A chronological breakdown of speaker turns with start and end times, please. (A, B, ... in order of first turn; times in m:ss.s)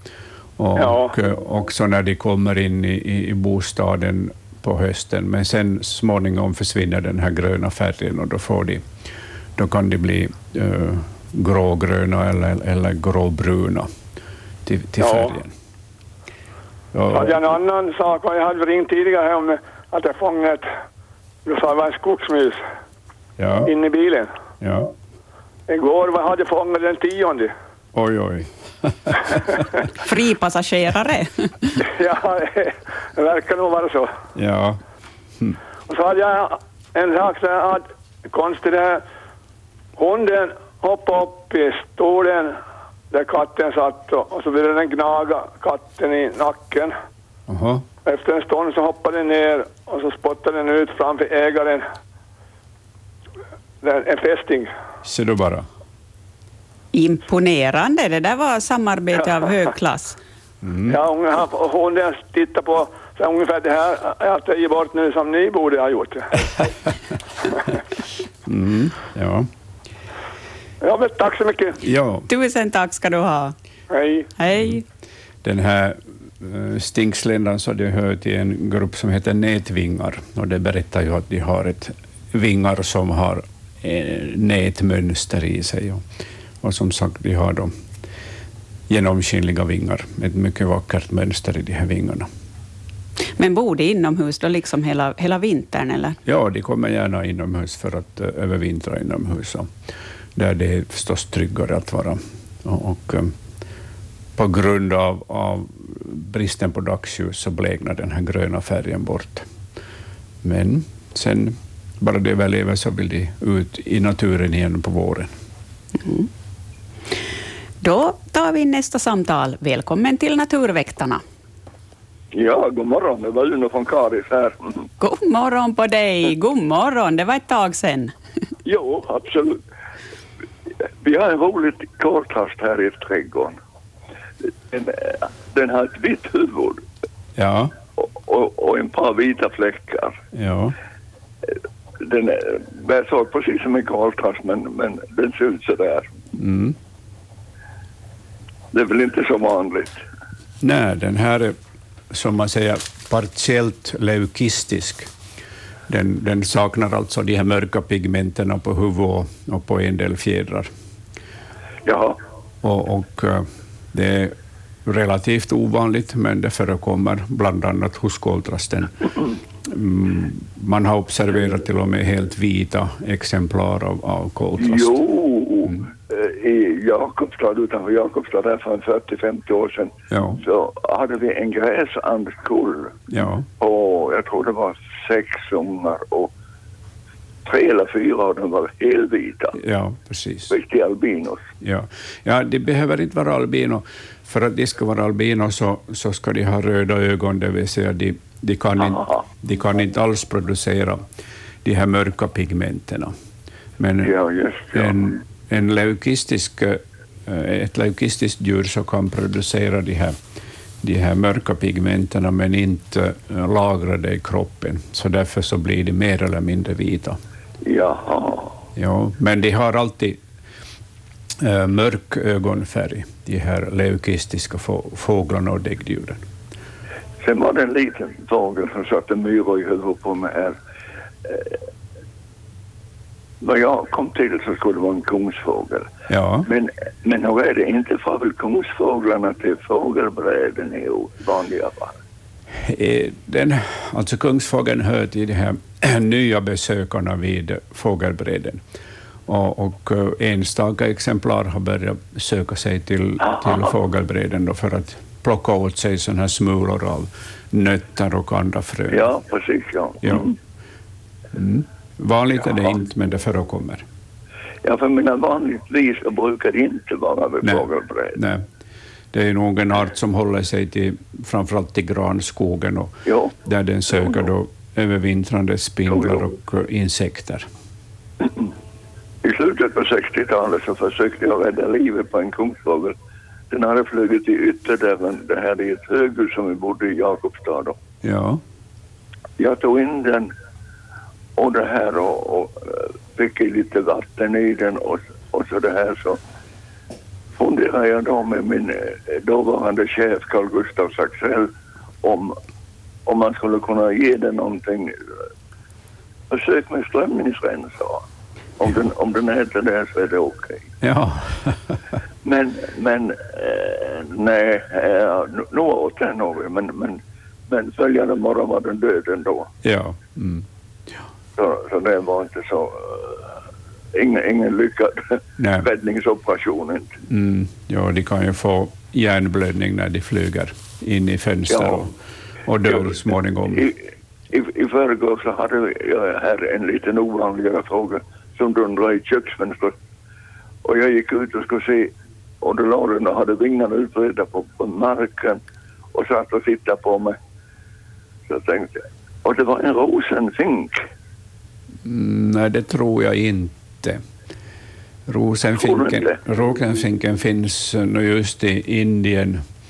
0:00.6-0:08.8 A
0:00.8-0:01.1 B
0:09.6-0:13.9 A
0:14.6-0:15.5 A
0:15.0-0:15.3 B
0:16.9-0:17.4 A
0:17.1-0:20.7 B
0:21.4-0:22.6 B
0:23.4-0:23.7 A
0:23.6-0:24.3 B
0:24.6-0:24.9 A
0:25.7-0:27.5 B
0:27.9-0:29.6 A
0:30.0-0:31.7 C
0:31.8-0:34.1 B
0:34.4-0:34.8 A
0:35.9-0:39.0 B
0:40.0-0:42.6 B
0:43.1-0:47.0 B
0:47.5-0:47.8 A
0:48.0-0:51.9 B
0:53.8-0:54.7 B
0:55.0-0:55.6 A
0:56.9-1:00.2 C
1:00.6-1:01.0 A
1:00.9-1:06.7 B
1:08.4-1:09.5 A
1:10.8-1:11.8 B
1:11.8-1:12.3 A
1:12.3-1:13.5 C
1:13.9-1:14.3 B
1:14.4-1:14.8 C
1:15.4-1:26.0 A
1:26.6-1:27.7 A
1:28.9-1:32.3 A
1:33.4-1:36.2 C
1:36.2-1:39.7 A
1:40.4-1:43.3 A
1:44.4-1:49.5 A
1:50.4-1:55.3 A
1:56.0-1:56.3 C
1:57.8-2:01.2 C
2:02.3-2:04.8 D
2:05.0-2:08.1 C
2:08.6-2:09.6 D
2:11.0-2:13.6 D
2:14.7-2:16.8 D
2:17.4-2:17.7 A
2:18.0-2:20.2 D
2:20.3-2:20.7 A
2:22.0-2:26.1 D
2:26.4-2:26.8 A
2:28.7-2:30.0 D
2:30.6-2:31.6 A
2:32.1-2:35.1 A
2:35.9-2:40.7 A
2:41.8-2:42.2 D
2:42.6-2:54.9 A
2:54.6-3:03.0 D
2:55.6-2:55.9 A
3:00.1-3:00.4 A
3:03.1-3:03.5 A
3:03.6-3:06.3 D
3:07.4-3:09.6 D
3:09.6-3:10.6 A
3:10.5-3:11.4 D
3:11.6-3:21.0 A
3:18.8-3:19.2 D
3:21.6-3:23.1 A
3:23.8-3:24.1 A
3:24.0-3:25.1 D
3:24.7-3:30.2 A
3:30.8-3:37.2 A
3:37.6-3:38.6 D
3:38.8-3:40.2 A
3:41.4-3:46.2 A
3:47.2-3:50.6 D
3:51.2-3:51.6 D
3:53.4-3:55.9 D
3:56.1-3:56.5 A
3:56.4-4:02.0 D
4:02.5-4:08.6 A
4:09.3-4:19.1 A
4:18.9-4:20.4 D
4:20.0-4:20.3 A
4:21.3-4:23.8 A
4:24.6-4:28.2 D
4:27.4-4:28.4 A
4:29.1-4:37.5 A
4:33.1-4:33.3 D
4:35.9-4:36.3 D
4:39.2-4:42.9 D
4:43.5-4:47.8 D
4:48.0-4:48.4 A
4:49.4-4:50.3 D
4:51.4-4:56.2 D
4:57.4-5:01.5 D
5:02.0-5:02.4 D
5:03.0-5:04.9 D
5:06.3-5:08.0 D
5:08.6-5:10.6 D
5:10.8-5:11.8 A
5:12.2-5:19.5 D
5:19.6-5:20.4 A
5:21.4-5:23.3 D
5:23.9-5:26.9 D
5:25.4-5:25.7 A
5:27.1-5:33.7 A
5:31.5-5:31.9 D
5:34.3-5:39.7 D
5:40.6-5:45.4 D
5:45.9-5:47.2 D
5:48.3-5:50.8 D
5:51.8-5:54.0 A
5:55.1-5:59.4 A
5:55.6-5:56.2 D